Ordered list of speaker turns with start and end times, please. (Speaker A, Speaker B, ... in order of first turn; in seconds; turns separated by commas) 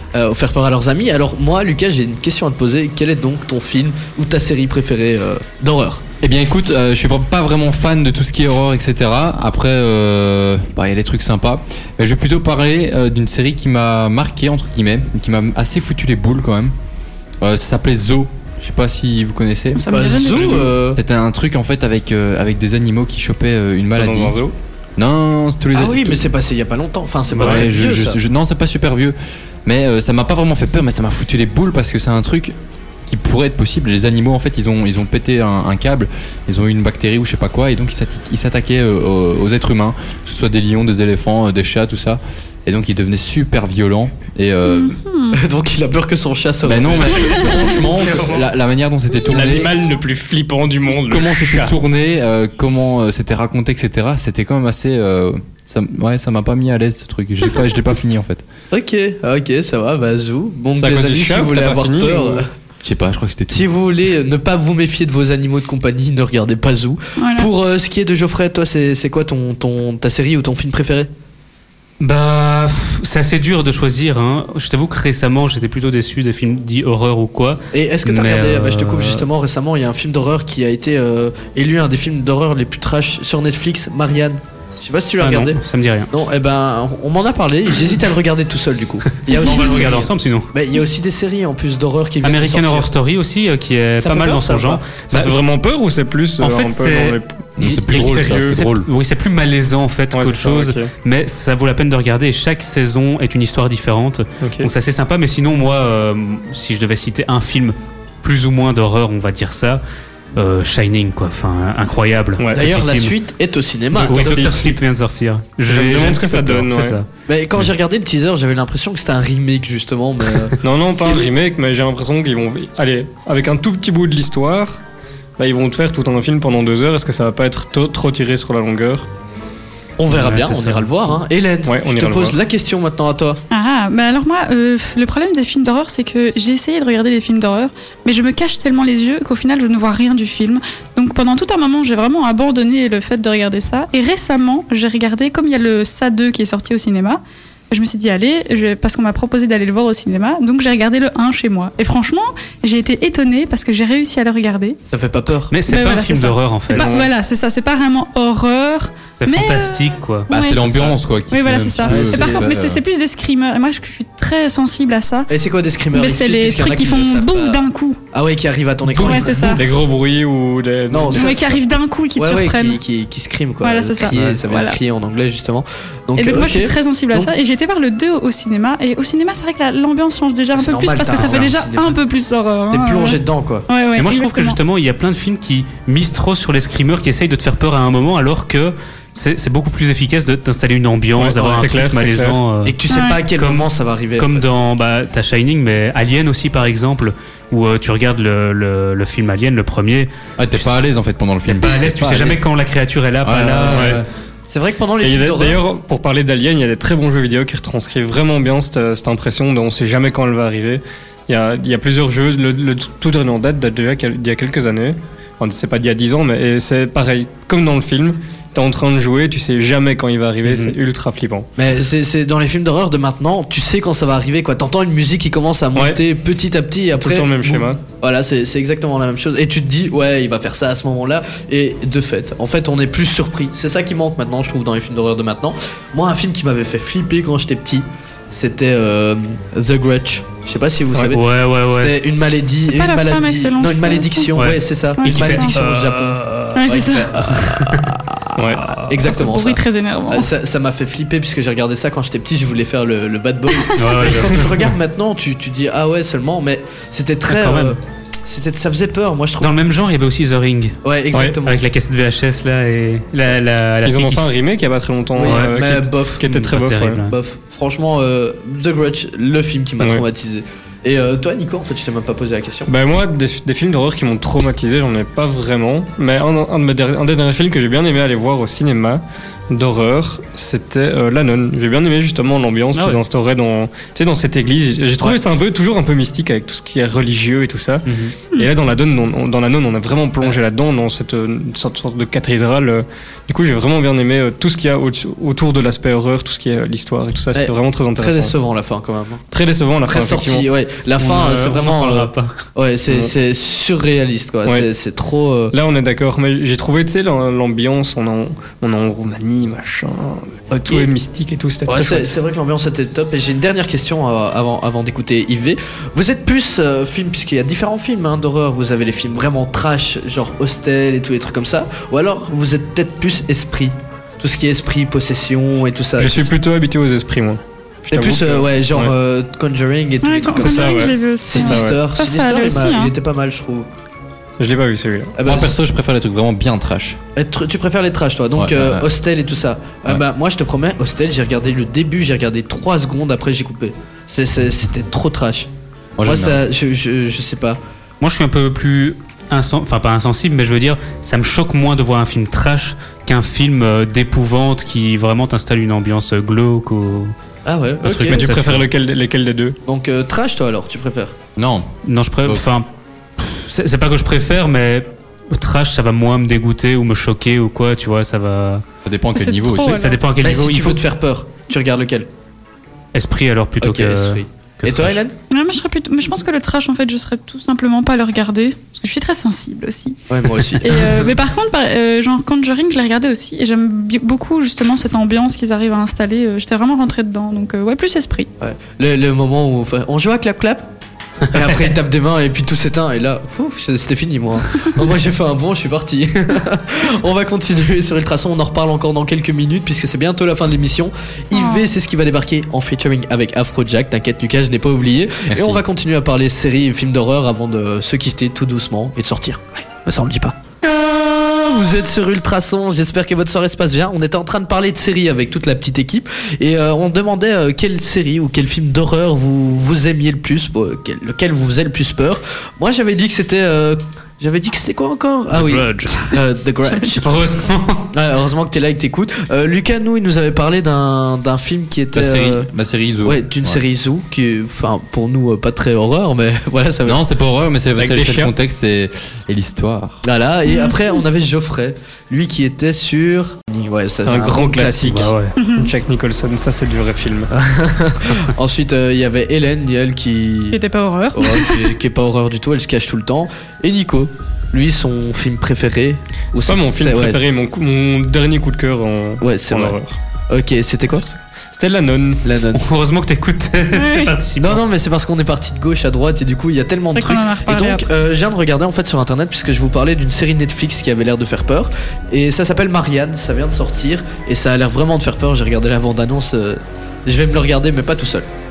Speaker A: 0.1-6.0, Speaker B: 6.2-16.7, Speaker B: 17.4-24.4, Speaker C: 19.8-20.7, Speaker A: 19.9-21.0, Speaker D: 23.9-24.5, Speaker B: 25.0-26.2, Speaker A: 25.7-28.2, Speaker B: 27.3-32.5, Speaker B: 33.0-45.0, Speaker C: 44.6-45.4, Speaker A: 45.3-47.5, Speaker B: 46.6-49.7, Speaker C: 47.2-47.7, Speaker E: 48.0-48.4, Speaker D: 49.3-51.7, Speaker B: 51.1-58.4, Speaker A: 58.7-62.5, Speaker D: 60.7-62.5, Speaker B: 62.8-63.7, Speaker A: 63.5-71.1, Speaker C: 67.2-67.5, Speaker E: 72.0-79.2, Speaker A: 77.7-85.6, Speaker E: 85.2-86.1, Speaker A: 86.1-92.9, Speaker E: 89.3-90.5, Speaker C: 89.3-89.8, Speaker E: 92.2-95.4, Speaker A: 94.0-94.8, Speaker D: 95.1-98.6, Speaker E: 96.4-109.8, Speaker B: 97.6-98.9, Speaker D: 100.1-100.9, Speaker D: 104.4-104.7, Speaker E: 110.3-113.2, Speaker D: 112.4-112.7, Speaker A: 112.5-114.8, Speaker E: 113.9-117.1, Speaker D: 115.7-117.0, Speaker A: 117.3-121.3, Speaker D: 120.6-124.8, Speaker D: 125.4-129.1, Speaker A: 130.0-133.4, Speaker E: 130.1-131.0, Speaker D: 131.6-132.4, Speaker C: 133.5-154.8, Speaker A: 154.9-155.5, Speaker E: 155.5-157.0, Speaker C: 155.7-165.3, Speaker D: 156.7-157.1, Speaker E: 159.2-160.3, Speaker B: 160.3-162.8, Speaker A: 161.8-162.5, Speaker A: 165.3-169.6, Speaker C: 165.9-168.0, Speaker C: 169.0-169.7, Speaker D: 169.0-171.4, Speaker A: 170.9-171.6, Speaker C: 171.1-172.8, Speaker A: 172.2-177.3, Speaker C: 173.6-174.8, Speaker C: 176.2-184.6, Speaker A: 180.5-182.0, Speaker E: 181.1-181.4, Speaker A: 182.7-183.7, Speaker E: 183.9-192.8, Speaker D: 191.2-192.4, Speaker A: 191.3-191.7, Speaker A: 192.6-194.4, Speaker C: 192.9-193.2, Speaker E: 193.3-200.8, Speaker B: 200.4-202.4, Speaker E: 201.5-204.0, Speaker B: 203.2-204.1, Speaker D: 203.7-204.0, Speaker A: 204.5-205.6, Speaker D: 205.0-221.5, Speaker E: 220.4-220.7, Speaker A: 221.6-259.5, Speaker D: 225.7-226.0, Speaker D: 226.9-227.8, Speaker E: 241.0-241.9, Speaker C: 242.7-244.3, Speaker E: 244.3-246.7, Speaker C: 245.0-245.6, Speaker C: 246.5-247.1, Speaker E: 247.3-247.9, Speaker D: 248.4-248.7, Speaker E: 248.6-249.0, Speaker C: 249.1-250.3, Speaker E: 253.7-254.7, Speaker E: 257.3-257.8, Speaker E: 259.4-260.8, Speaker A: 260.8-261.6, Speaker D: 261.1-261.4, Speaker E: 261.4-264.4, Speaker D: 263.8-267.0, Speaker A: 265.1-266.2, Speaker E: 265.2-267.1, Speaker A: 267.1-272.7, Speaker D: 272.7-298.3, Speaker E: 282.7-283.0, Speaker E: 287.9-288.1, Speaker A: 297.3-299.2, Speaker D: 299.3-300.5, Speaker A: 299.9-305.5, Speaker E: 301.0-302.4, Speaker D: 305.5-312.1, Speaker A: 311.6-326.3, Speaker D: 326.0-328.9, Speaker A: 327.9-333.7, Speaker C: 330.0-332.9, Speaker D: 330.4-331.8, Speaker D: 334.4-335.1, Speaker A: 335.1-335.5, Speaker B: 335.2-337.0, Speaker A: 337.1-345.5, Speaker B: 338.3-338.9, Speaker B: 346.0-346.4, Speaker A: 346.0-347.6, Speaker E: 348.0-357.1, Speaker A: 357.4-358.3, Speaker E: 357.8-358.7, Speaker D: 358.0-359.6, Speaker A: 359.7-361.1, Speaker B: 361.4-361.7, Speaker E: 361.9-362.7, Speaker E: 363.2-368.6, Speaker B: 368.8-369.9, Speaker C: 369.1-370.0, Speaker E: 369.6-370.8, Speaker A: 370.2-372.1, Speaker E: 372.9-375.0, Speaker A: 373.6-375.1, Speaker C: 375.3-380.0, Speaker A: 380.1-381.1, Speaker C: 380.6-388.3, Speaker A: 388.4-390.6, Speaker A: 391.3-427.2, Speaker C: 401.3-401.7, Speaker B: 405.3-405.6, Speaker E: 425.3-426.1, Speaker C: 426.7-427.4, Speaker E: 427.0-427.9, Speaker A: 427.9-432.5, Speaker B: 431.9-433.6, Speaker A: 433.0-437.0, Speaker B: 436.8-440.0, Speaker D: 437.7-438.3, Speaker A: 440.0-445.1, Speaker C: 440.4-440.7, Speaker D: 444.0-447.3, Speaker E: 444.9-445.4, Speaker C: 445.4-445.7, Speaker A: 447.3-450.6, Speaker C: 450.5-451.7, Speaker A: 451.1-457.2, Speaker D: 456.3-460.0, Speaker A: 459.2-459.8, Speaker A: 460.3-461.0, Speaker D: 460.9-462.2, Speaker A: 462.2-462.6, Speaker E: 462.5-464.6, Speaker C: 463.7-464.1, Speaker A: 464.4-478.3, Speaker C: 466.9-467.9